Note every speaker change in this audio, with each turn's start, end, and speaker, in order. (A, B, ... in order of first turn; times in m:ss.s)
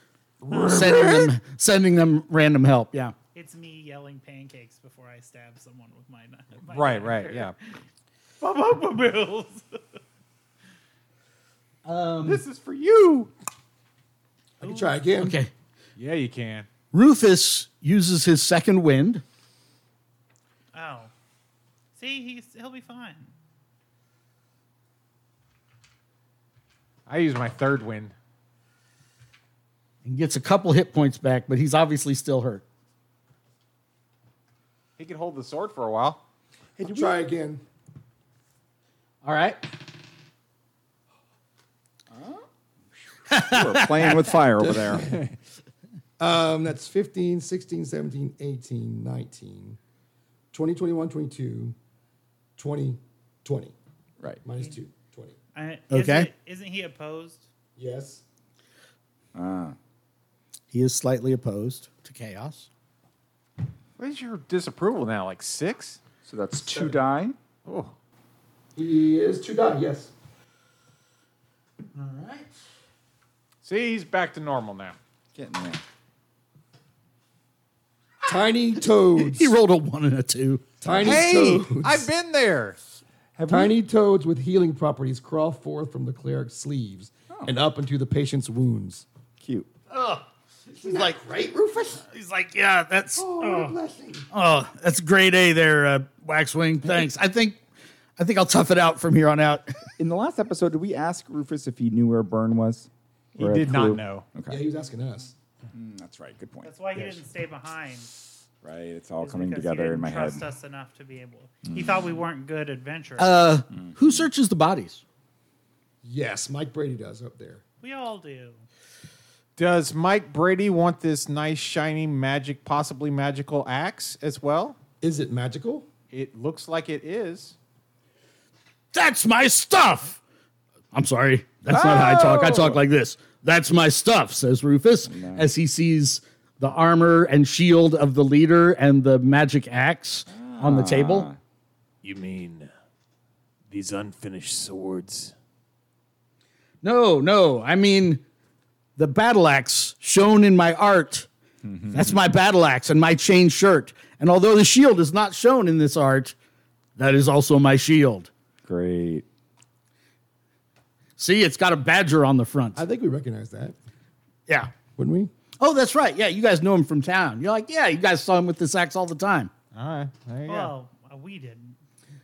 0:00.4-0:01.3 A
0:00.5-0:03.1 B
0:03.4-0:07.8 C
0:06.7-0:07.6 A
0:08.4-0:09.8 C
0:11.8-0:12.4 B
0:12.2-0:13.3 A
0:14.6-0:15.4 D
0:14.6-0:15.0 C
0:15.2-0:15.5 B
0:16.0-0:16.7 A
0:16.9-0:19.2 B
0:20.7-0:21.1 C
0:22.0-0:23.3 C
0:27.1-0:28.1 A
0:30.0-0:32.6 B
0:35.0-0:36.2 A
0:36.8-0:37.6 D
0:36.9-0:37.2 B
0:39.2-0:39.6 B
0:42.1-0:42.4 E
0:43.3-0:44.4 B
0:43.3-0:45.1 E
0:44.6-0:45.2 D
0:46.2-0:49.8 D
0:50.5-0:51.8 D
0:52.6-0:53.7 D
0:54.4-0:55.4 D
0:55.5-0:57.5 C
0:55.9-0:56.3 B
0:57.8-0:58.2 D
0:59.3-0:59.8 E
1:00.7-1:02.7 B
1:04.0-1:06.0 A
1:06.2-1:07.4 E
1:06.6-1:07.0 D
1:07.6-1:07.9 A
1:08.8-1:10.1 D
1:11.9-1:12.5 B
1:13.6-1:15.0 A
1:15.3-1:15.8 E
1:18.2-1:19.6 D
1:19.2-1:21.2 B
1:20.8-1:22.1 D
1:21.0-1:22.8 A
1:23.4-1:23.7 A
1:23.5-1:29.0 D
1:29.4-1:29.7 E
1:29.9-1:30.2 B
1:30.8-1:31.3 B
1:30.8-1:32.0 D
1:32.0-1:33.7 B
1:33.2-1:34.3 D
1:34.3-1:37.6 B
1:38.2-1:39.9 B
1:40.0-1:44.6 E
1:43.4-1:44.3 A
1:44.5-1:45.3 D
1:45.7-1:47.1 E
1:46.6-1:48.1 C
1:48.6-1:50.5 E
1:49.2-1:53.5 C
1:51.6-1:52.2 E
1:53.2-1:55.0 B
1:53.7-1:54.3 E
1:56.0-1:57.6 D
1:57.8-1:58.6 C
1:59.6-2:04.8 A
2:05.0-2:05.9 D
2:06.1-2:07.6 A
2:08.9-2:10.2 B
2:10.9-2:21.3 B
2:11.7-2:12.8 E
2:15.1-2:15.5 E
2:20.3-2:21.4 E
2:22.0-2:22.6 F
2:23.7-2:25.3 F
2:26.8-2:28.2 B
2:29.0-2:31.3 B
2:31.6-2:32.2 E
2:31.9-2:36.4 B
2:37.0-2:38.3 B
2:38.6-2:39.2 E
2:41.2-2:42.8 B
2:42.8-2:43.8 D
2:44.5-2:44.7 B
2:45.0-2:45.3 D
2:45.6-2:49.5 B
2:49.7-2:50.7 A
2:50.5-2:51.8 C